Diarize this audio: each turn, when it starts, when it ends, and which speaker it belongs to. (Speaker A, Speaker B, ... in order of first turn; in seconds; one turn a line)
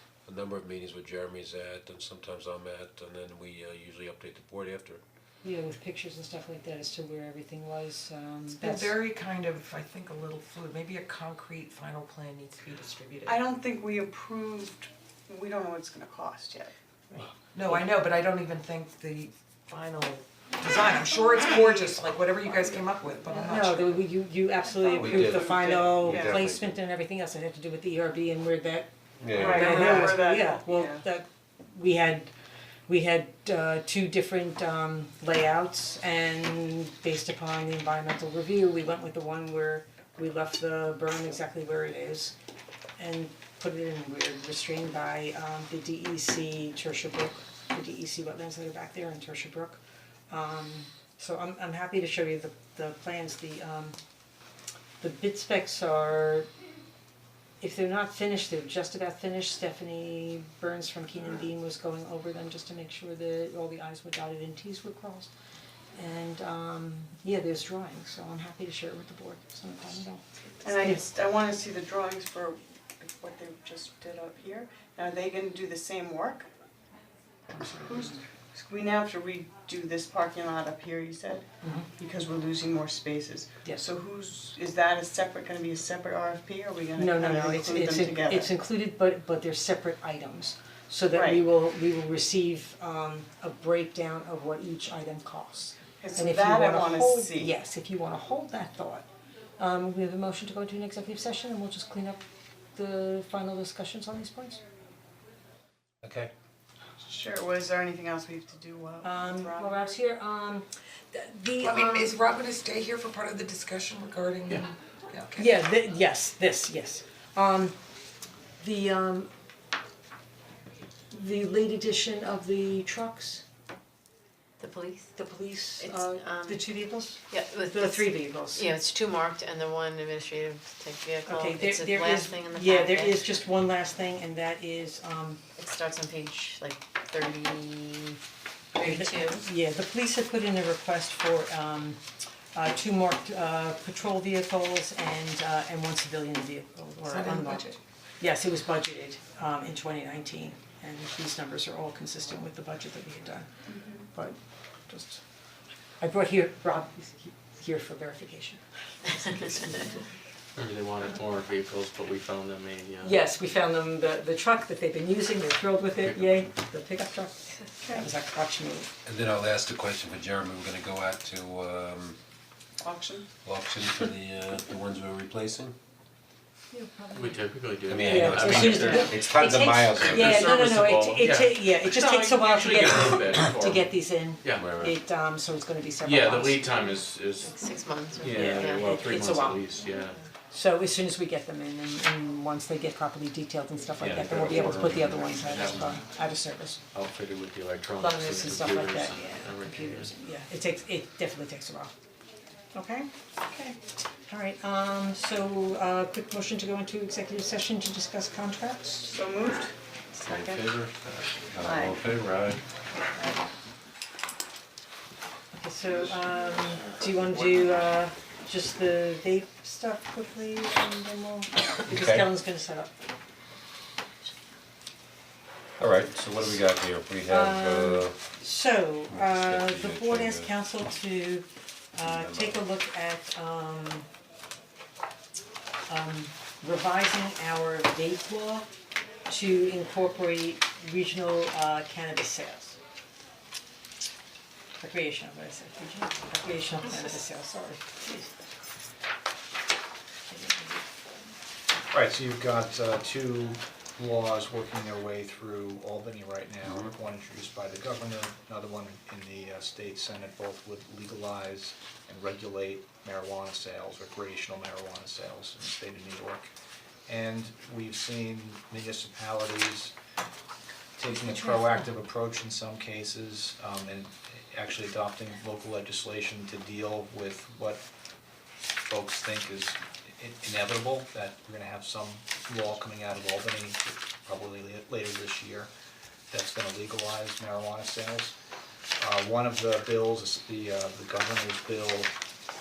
Speaker A: 0.2-5.0
Speaker B: 5.4-9.0
Speaker C: 8.5-13.4
Speaker D: 13.2-17.3
Speaker C: 17.5-23.9
Speaker D: 21.0-23.6
Speaker B: 23.4-32.3
Speaker D: 24.8-26.5
Speaker A: 24.9-26.6
Speaker A: 29.2-29.6
Speaker D: 29.3-31.0
Speaker E: 29.6-30.0
Speaker B: 32.9-42.3
Speaker B: 43.0-54.0
Speaker B: 55.0-56.5
Speaker B: 57.6-65.3
Speaker B: 65.9-71.0
Speaker D: 70.6-76.5
Speaker B: 77.5-78.2
Speaker D: 77.9-81.4
Speaker B: 81.6-81.9
Speaker D: 82.0-88.5
Speaker B: 87.0-99.0
Speaker D: 91.1-91.4
Speaker D: 96.0-97.5
Speaker B: 99.6-102.2
Speaker B: 102.7-104.6
Speaker A: 106.0-106.3
Speaker D: 107.0-109.9
Speaker B: 109.0-112.2
Speaker C: 111.6-115.5
Speaker B: 115.3-117.7
Speaker B: 118.6-119.3
Speaker B: 121.1-123.4
Speaker E: 124.6-125.1
Speaker B: 125.1-128.8
Speaker E: 125.8-126.7
Speaker E: 127.3-133.3
Speaker B: 131.2-135.4
Speaker E: 135.6-138.2
Speaker C: 138.8-139.1
Speaker B: 138.8-142.0
Speaker E: 139.1-139.4
Speaker B: 142.5-147.7
Speaker C: 147.0-147.8
Speaker B: 148.2-153.4
Speaker D: 153.7-154.0
Speaker B: 154.9-155.2
Speaker B: 156.0-160.0
Speaker F: 160.6-163.2
Speaker B: 163.0-168.9
Speaker F: 166.0-166.4
Speaker D: 167.8-168.1
Speaker A: 169.0-172.2
Speaker D: 172.8-173.2
Speaker A: 173.4-175.7
Speaker B: 176.7-177.5
Speaker F: 177.1-183.9
Speaker A: 177.9-180.6
Speaker B: 178.0-186.9
Speaker A: 184.6-184.9
Speaker F: 186.0-187.5
Speaker E: 187.4-188.9
Speaker F: 188.1-190.2
Speaker B: 188.3-189.7
Speaker B: 190.5-196.8
Speaker F: 194.0-196.1
Speaker A: 194.3-194.7
Speaker F: 196.9-200.1
Speaker B: 198.0-201.9
Speaker B: 202.7-209.1
Speaker D: 209.0-210.6
Speaker F: 210.2-212.6
Speaker A: 211.5-212.0
Speaker D: 211.6-212.0
Speaker B: 215.5-222.9
Speaker A: 221.9-222.3
Speaker A: 225.8-228.2
Speaker B: 227.3-234.1
Speaker A: 229.1-230.5
Speaker A: 232.0-232.6
Speaker B: 235.9-238.7
Speaker B: 239.3-242.8
Speaker B: 244.8-248.3
Speaker B: 250.3-250.8
Speaker G: 251.9-266.5
Speaker G: 267.1-269.9
Speaker G: 271.0-277.8
Speaker G: 278.8-285.7
Speaker G: 286.3-288.4
Speaker G: 289.0-292.1